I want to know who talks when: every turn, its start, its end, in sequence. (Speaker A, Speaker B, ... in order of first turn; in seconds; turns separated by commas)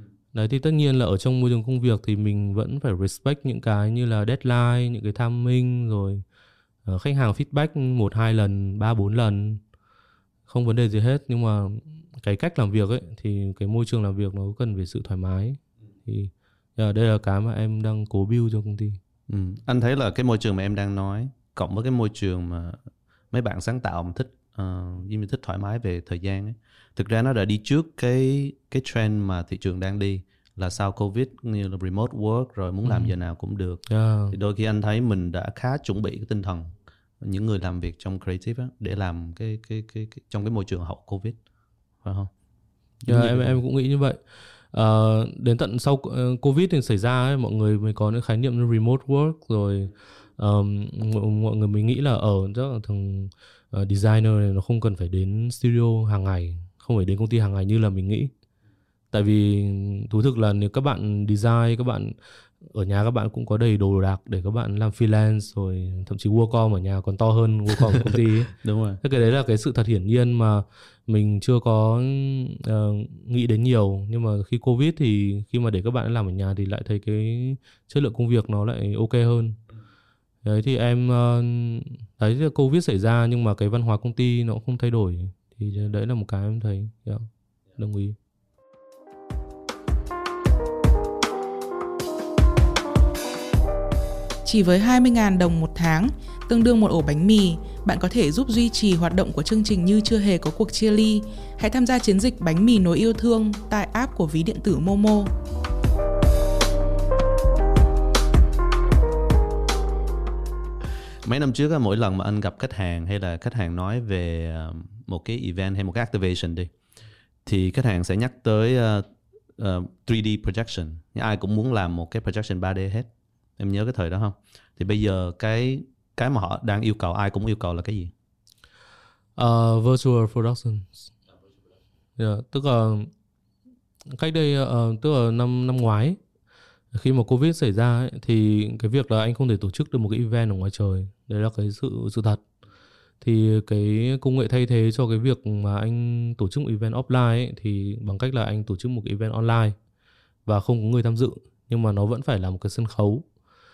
Speaker A: 0.3-6.2, Speaker A: 6.8-9.6, Speaker A: 10.5-19.0, Speaker B: 19.3-22.8, Speaker B: 23.3-41.4, Speaker A: 32.8-33.1, Speaker A: 33.9-34.4, Speaker B: 42.0-42.3, Speaker B: 43.0-43.6, Speaker A: 43.1-44.2, Speaker A: 44.7-58.3, Speaker A: 59.1-79.6, Speaker B: 68.0-69.0, Speaker A: 80.4-88.2, Speaker C: 94.4-105.3, Speaker B: 111.2-116.7, Speaker B: 117.4-119.0, Speaker B: 119.6-128.1, Speaker A: 129.3-131.1, Speaker A: 132.2-133.1, Speaker A: 134.1-136.2, Speaker A: 136.9-142.4, Speaker A: 143.2-149.8, Speaker A: 150.4-153.2